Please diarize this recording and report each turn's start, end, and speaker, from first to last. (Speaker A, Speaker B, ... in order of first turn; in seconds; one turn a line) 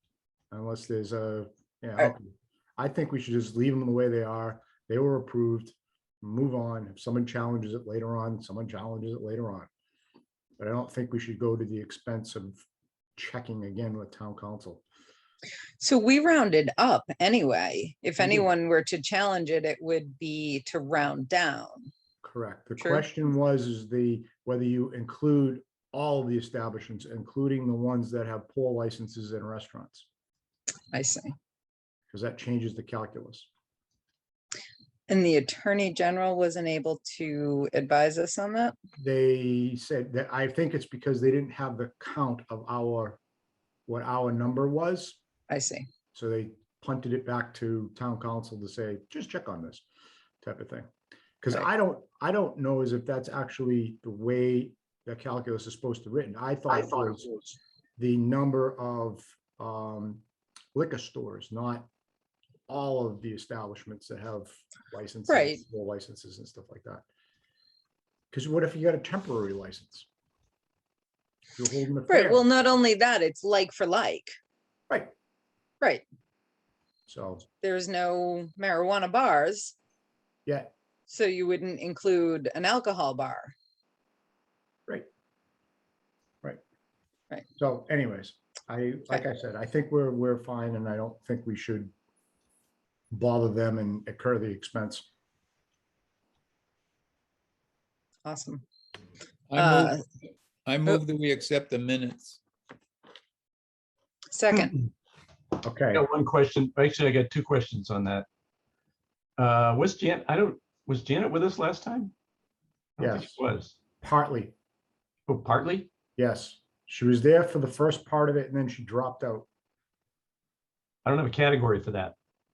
Speaker A: 0.5-9.7
Speaker A: 10.6-12.6
Speaker A: 13.2-14.8
Speaker B: 15.8-21.9
Speaker A: 18.2-18.5
Speaker A: 22.2-30.1
Speaker B: 22.8-23.0
Speaker B: 30.9-31.3
Speaker A: 32.1-33.5
Speaker B: 35.1-38.7
Speaker A: 39.0-43.2
Speaker A: 43.9-45.2
Speaker B: 45.5-45.9
Speaker A: 46.1-49.8
Speaker A: 50.4-50.9
Speaker A: 51.4-57.3
Speaker A: 58.0-60.2
Speaker A: 60.7-61.9
Speaker A: 62.7-67.0
Speaker B: 65.3-65.6
Speaker A: 68.3-70.1
Speaker A: 71.5-72.4
Speaker B: 72.1-74.3
Speaker A: 77.1-77.5
Speaker B: 77.6-79.7
Speaker A: 80.5-80.7
Speaker B: 81.1-83.5
Speaker A: 87.6-91.9
Speaker A: 93.1-95.0
Speaker B: 98.2-98.6
Speaker C: 99.5-100.0
Speaker B: 99.6-100.0
Speaker C: 100.6-102.4
Speaker B: 104.3-104.8
Speaker A: 105.6-106.0
Speaker D: 105.9-108.2
Speaker D: 109.4-112.1
Speaker D: 113.0-113.7
Speaker A: 113.0-113.4
Speaker A: 114.0-114.5
Speaker D: 115.3-115.9
Speaker A: 116.2-119.5
Speaker D: 121.0-122.1